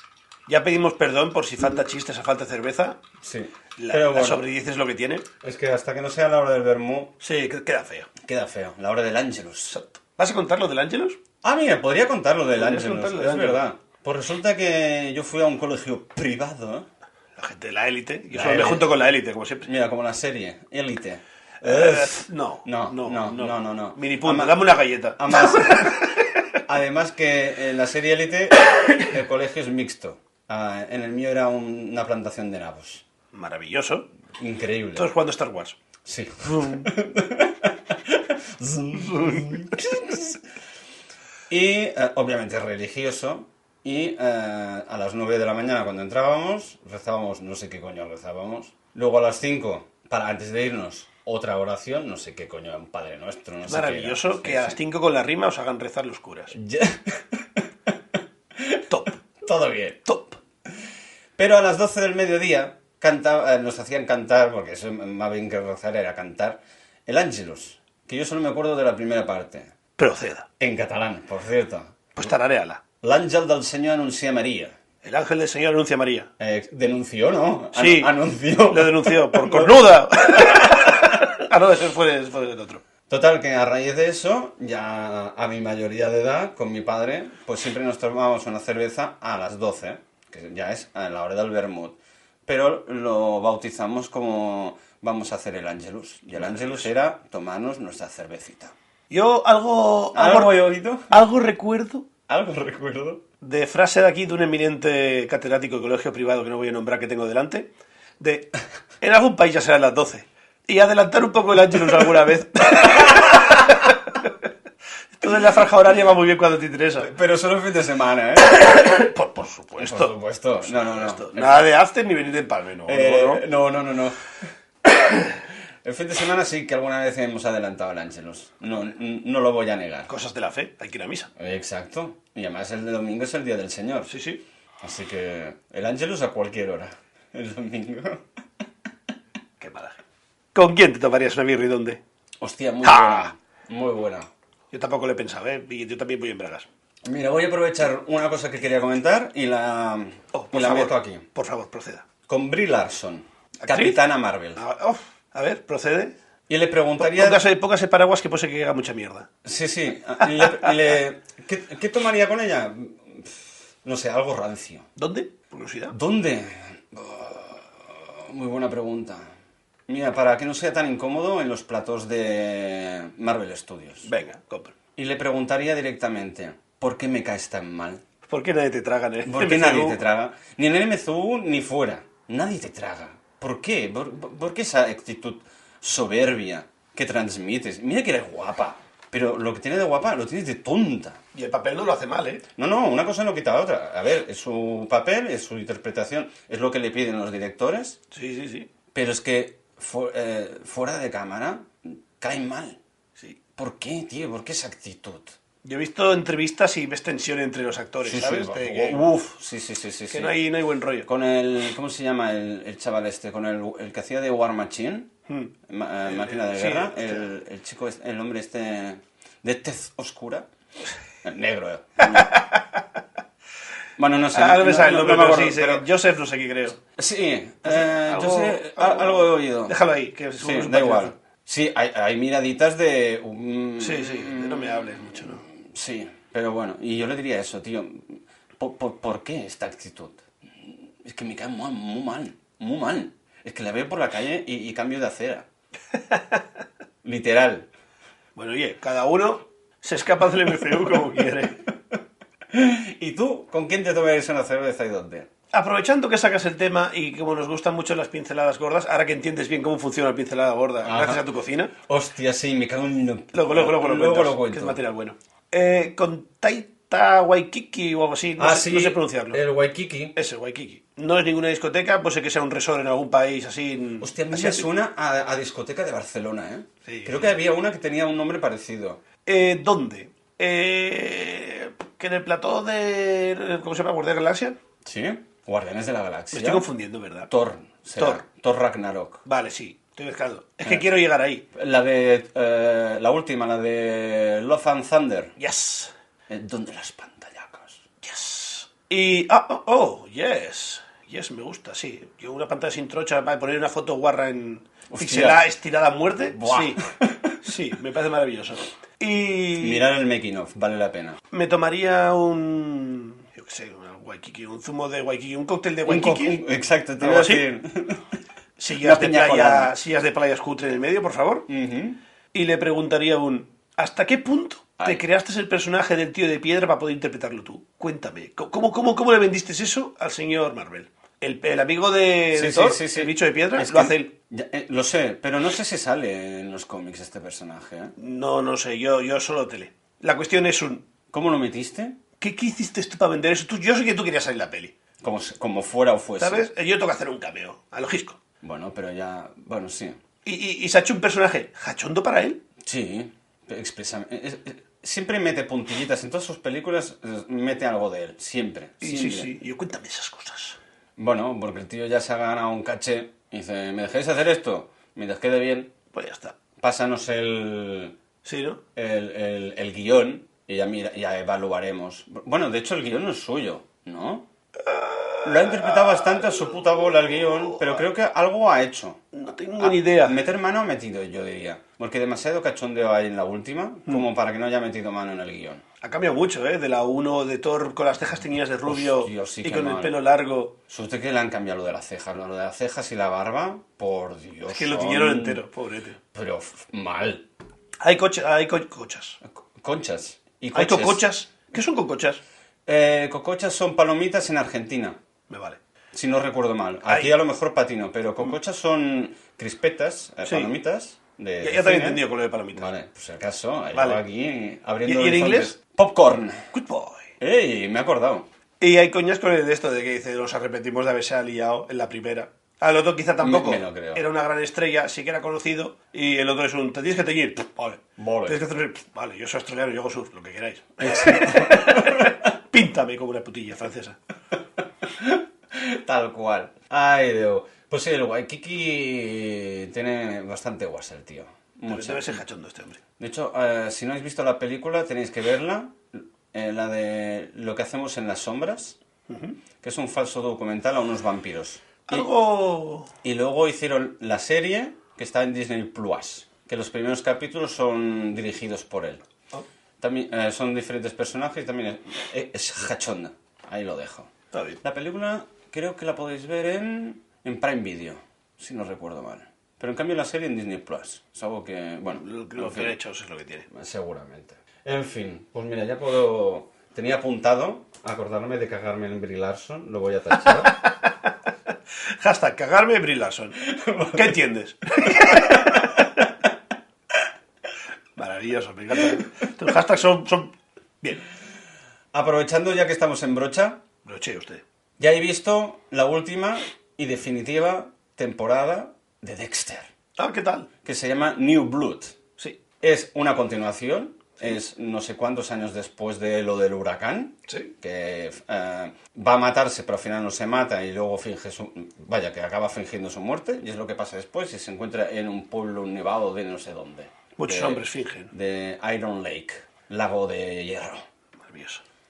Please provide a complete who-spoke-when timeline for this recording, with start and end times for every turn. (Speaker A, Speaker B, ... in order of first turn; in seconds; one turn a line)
Speaker A: 0.5-3.0
Speaker B: 3.2-4.4
Speaker A: 3.8-5.3
Speaker B: 5.4-7.1
Speaker A: 7.2-8.1
Speaker B: 8.2-9.8
Speaker A: 9.7-11.2
Speaker B: 11.4-16.9
Speaker A: 12.6-13.6
Speaker A: 17.4-19.7
Speaker B: 18.3-18.9
Speaker B: 19.6-33.0
Speaker A: 21.6-26.2
Speaker A: 33.3-34.1
Speaker B: 34.4-35.1
Speaker A: 35.0-35.8
Speaker B: 36.0-40.4
Speaker A: 38.9-39.8
Speaker B: 41.5-54.8
Speaker A: 53.6-56.5
Speaker B: 56.5-57.9
Speaker B: 58.5-58.8
Speaker A: 58.9-59.2
Speaker B: 59.4-60.0
Speaker A: 60.0-60.4
Speaker B: 61.4-69.7
Speaker A: 70.0-70.5
Speaker B: 70.6-72.3
Speaker A: 72.1-72.8
Speaker B: 73.0-74.8
Speaker A: 75.0-76.3
Speaker B: 76.4-81.2
Speaker A: 77.7-78.1
Speaker A: 78.7-82.8
Speaker B: 83.1-98.7
Speaker A: 96.3-96.9
Speaker A: 99.1-102.1
Speaker B: 100.1-101.2
Speaker B: 102.3-103.2
Speaker A: 103.4-114.3
Speaker B: 112.8-113.7
Speaker A: 115.2-117.1
Speaker B: 117.0-119.1
Speaker A: 118.5-123.4
Speaker B: 119.8-121.6
Speaker B: 122.9-124.2
Speaker B: 124.8-130.1
Speaker A: 130.1-131.3
Speaker B: 131.4-134.1
Speaker A: 134.1-134.4
Speaker B: 134.8-138.2
Speaker A: 139.6-140.0
Speaker A: 140.5-142.0
Speaker B: 142.4-144.3
Speaker A: 142.8-143.3
Speaker A: 144.7-146.7
Speaker B: 147.0-151.2
Speaker A: 150.3-152.1
Speaker B: 152.3-154.6
Speaker A: 153.6-154.0
Speaker A: 154.6-156.2
Speaker B: 156.5-157.4
Speaker A: 157.0-159.3
Speaker B: 159.4-164.9
Speaker A: 164.9-165.9
Speaker B: 165.9-169.2
Speaker B: 169.9-174.1
Speaker A: 174.0-174.7
Speaker B: 174.9-178.0
Speaker A: 178.2-180.0
Speaker B: 179.2-191.2
Speaker A: 191.3-192.4
Speaker B: 192.6-198.0
Speaker A: 198.1-198.7
Speaker B: 198.9-202.8
Speaker B: 203.6-205.3
Speaker A: 205.6-209.0
Speaker B: 208.0-210.4
Speaker A: 210.1-211.1
Speaker B: 211.0-215.1
Speaker B: 215.7-220.5
Speaker A: 216.1-217.3
Speaker B: 221.2-222.4
Speaker A: 222.0-222.8
Speaker B: 224.0-225.8
Speaker A: 224.3-226.8
Speaker B: 226.9-229.8
Speaker A: 227.7-231.1
Speaker B: 230.4-245.5
Speaker A: 233.8-235.4
Speaker A: 246.1-246.4
Speaker B: 247.0-247.7
Speaker A: 248.3-251.6
Speaker B: 252.5-255.3
Speaker A: 255.5-261.7
Speaker B: 260.8-261.2
Speaker B: 261.8-264.8
Speaker A: 263.3-269.4
Speaker B: 268.4-270.1
Speaker A: 270.1-274.7
Speaker B: 274.0-279.0
Speaker A: 276.8-277.3
Speaker A: 279.2-284.6
Speaker B: 284.8-286.7
Speaker A: 286.3-287.3
Speaker B: 287.3-289.2
Speaker A: 288.0-288.2
Speaker A: 289.2-291.4
Speaker B: 291.5-295.3
Speaker A: 295.4-295.9
Speaker B: 296.3-297.9
Speaker A: 298.0-309.8
Speaker B: 304.9-305.4
Speaker B: 306.3-307.4
Speaker B: 309.6-311.2
Speaker A: 311.3-316.4
Speaker B: 315.9-318.1
Speaker A: 317.0-317.4
Speaker A: 318.6-321.5
Speaker B: 318.8-319.7
Speaker B: 321.5-322.0
Speaker A: 322.3-334.1
Speaker B: 332.3-337.9
Speaker A: 338.0-340.9
Speaker B: 341.1-342.0
Speaker A: 342.2-344.7
Speaker B: 345.0-346.5
Speaker A: 346.2-348.2
Speaker B: 348.4-350.0
Speaker A: 350.2-352.4
Speaker B: 352.6-359.4
Speaker A: 358.8-360.6
Speaker B: 361.0-365.7
Speaker A: 365.9-366.4
Speaker B: 366.6-367.9
Speaker A: 368.2-368.6
Speaker B: 368.8-374.3
Speaker A: 374.6-377.8
Speaker B: 375.2-379.0
Speaker A: 379.1-380.2
Speaker B: 379.6-385.6
Speaker A: 385.8-390.6
Speaker B: 388.6-390.0
Speaker B: 390.7-395.4
Speaker A: 394.5-396.0
Speaker B: 396.1-397.2
Speaker A: 397.8-399.2
Speaker B: 399.2-401.0
Speaker A: 400.5-402.2
Speaker B: 402.6-405.0
Speaker A: 405.3-405.6
Speaker B: 405.9-416.5
Speaker A: 406.9-407.1
Speaker A: 410.2-410.5
Speaker A: 411.4-412.7
Speaker A: 413.7-414.0
Speaker A: 414.8-415.6
Speaker A: 416.5-417.1
Speaker B: 417.2-418.2
Speaker A: 418.6-434.0
Speaker B: 423.2-424.1
Speaker B: 428.0-428.4
Speaker B: 430.8-432.1
Speaker B: 434.8-442.2
Speaker A: 441.7-442.8
Speaker B: 443.0-448.8
Speaker A: 449.1-449.4
Speaker B: 449.6-452.1
Speaker A: 451.9-452.9
Speaker B: 453.0-459.0
Speaker B: 459.8-464.1
Speaker A: 464.3-464.6
Speaker B: 464.6-472.8
Speaker A: 471.9-473.5
Speaker B: 473.5-480.6
Speaker A: 480.4-481.1
Speaker A: 482.0-485.7
Speaker B: 483.4-484.2
Speaker B: 484.8-486.0
Speaker A: 487.9-491.0
Speaker B: 491.9-493.6
Speaker A: 493.8-494.4
Speaker B: 494.8-499.7
Speaker A: 500.0-500.5
Speaker B: 500.6-502.0
Speaker B: 502.6-520.9
Speaker A: 507.3-507.5
Speaker A: 517.2-518.1
Speaker A: 521.2-521.6